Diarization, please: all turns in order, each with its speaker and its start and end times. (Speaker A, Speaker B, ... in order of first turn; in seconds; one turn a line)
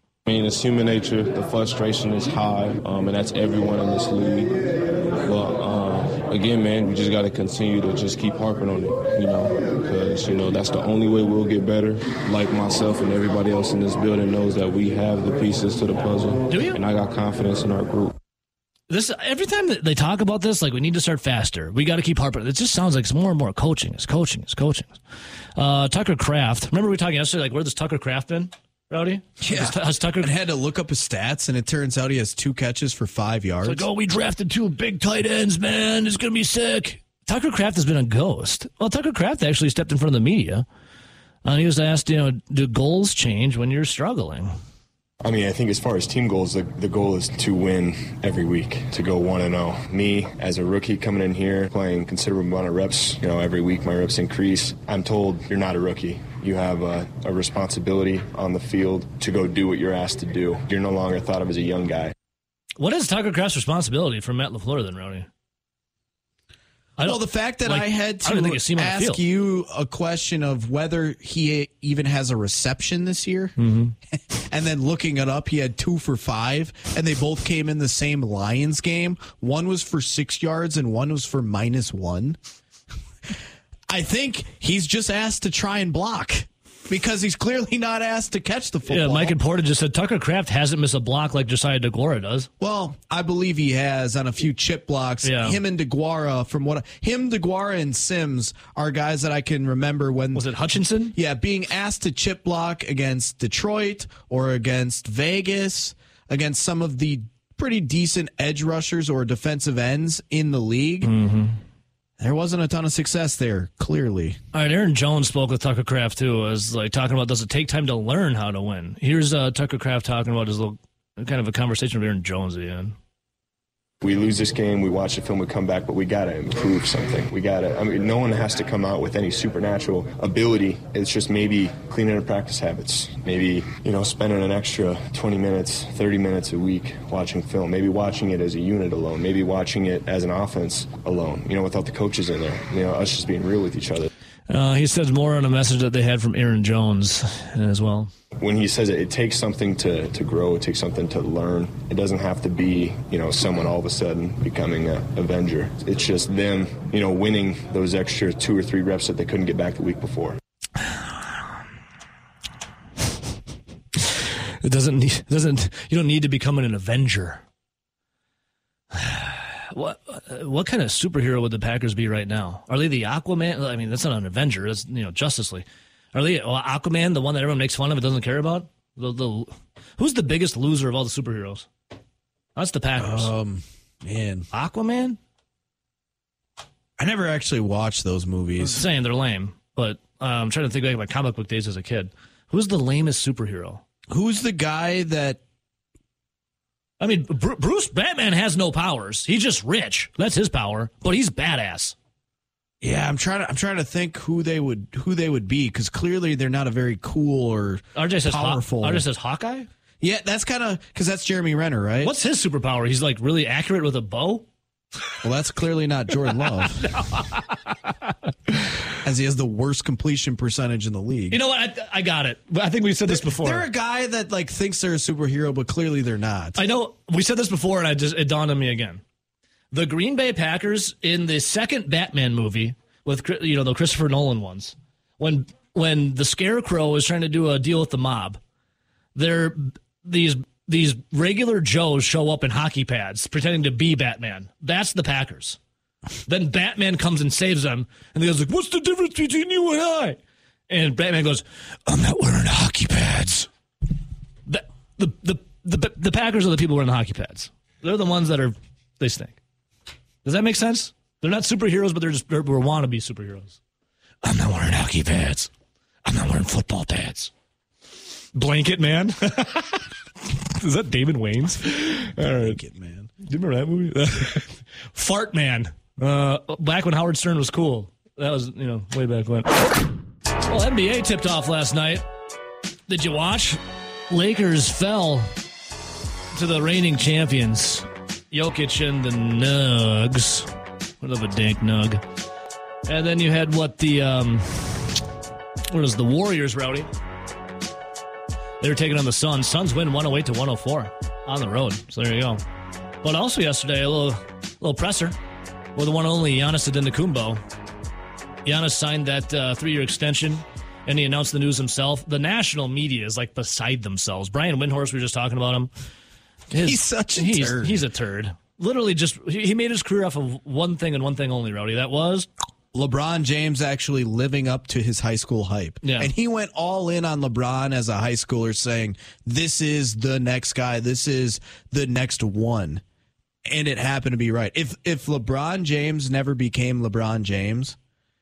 Speaker A: 0.2-4.6
Speaker A: 5.2-18.1
Speaker B: 16.5-16.8
Speaker B: 18.9-25.0
Speaker B: 25.6-30.3
Speaker C: 29.4-33.9
Speaker B: 33.6-40.6
Speaker B: 41.4-44.5
Speaker D: 45.2-62.1
Speaker B: 62.8-65.3
Speaker B: 67.0-69.2
Speaker C: 67.0-73.5
Speaker B: 73.6-73.9
Speaker C: 74.1-82.4
Speaker C: 83.9-89.3
Speaker B: 88.9-92.5
Speaker C: 92.6-100.5
Speaker B: 95.2-95.6
Speaker B: 100.3-101.1
Speaker C: 101.1-111.1
Speaker B: 111.0-111.6
Speaker C: 112.2-114.4
Speaker B: 114.5-123.0
Speaker D: 124.0-144.1
Speaker B: 144.5-148.1
Speaker D: 148.4-160.4
Speaker B: 164.6-167.4
Speaker B: 168.9-181.7
Speaker B: 182.6-183.3
Speaker C: 183.0-184.5
Speaker B: 184.5-185.2
Speaker C: 187.0-188.9
Speaker B: 188.6-193.8
Speaker C: 194.1-195.4
Speaker B: 197.0-201.9
Speaker C: 202.8-209.0
Speaker B: 207.9-209.7
Speaker C: 210.0-212.1
Speaker B: 212.0-214.4
Speaker C: 215.2-216.9
Speaker B: 216.2-217.9
Speaker C: 219.0-221.4
Speaker B: 221.3-223.6
Speaker C: 223.1-226.6
Speaker B: 226.6-229.0
Speaker B: 229.7-238.4
Speaker B: 239.1-245.6
Speaker B: 246.2-253.5
Speaker B: 254.5-259.4
Speaker B: 260.2-263.6
Speaker B: 264.2-265.5
Speaker B: 266.0-267.3
Speaker B: 268.3-272.6
Speaker C: 272.3-273.1
Speaker B: 273.2-279.9
Speaker B: 280.4-282.1
Speaker B: 282.9-285.3
Speaker B: 286.3-290.5
Speaker B: 291.0-292.0
Speaker B: 292.9-295.0
Speaker B: 295.7-296.9
Speaker B: 298.6-302.4
Speaker B: 303.0-305.1
Speaker B: 305.8-307.4
Speaker B: 308.4-315.7
Speaker B: 316.5-322.3
Speaker C: 316.5-317.8
Speaker C: 322.7-332.8
Speaker B: 325.8-326.1
Speaker C: 333.4-337.8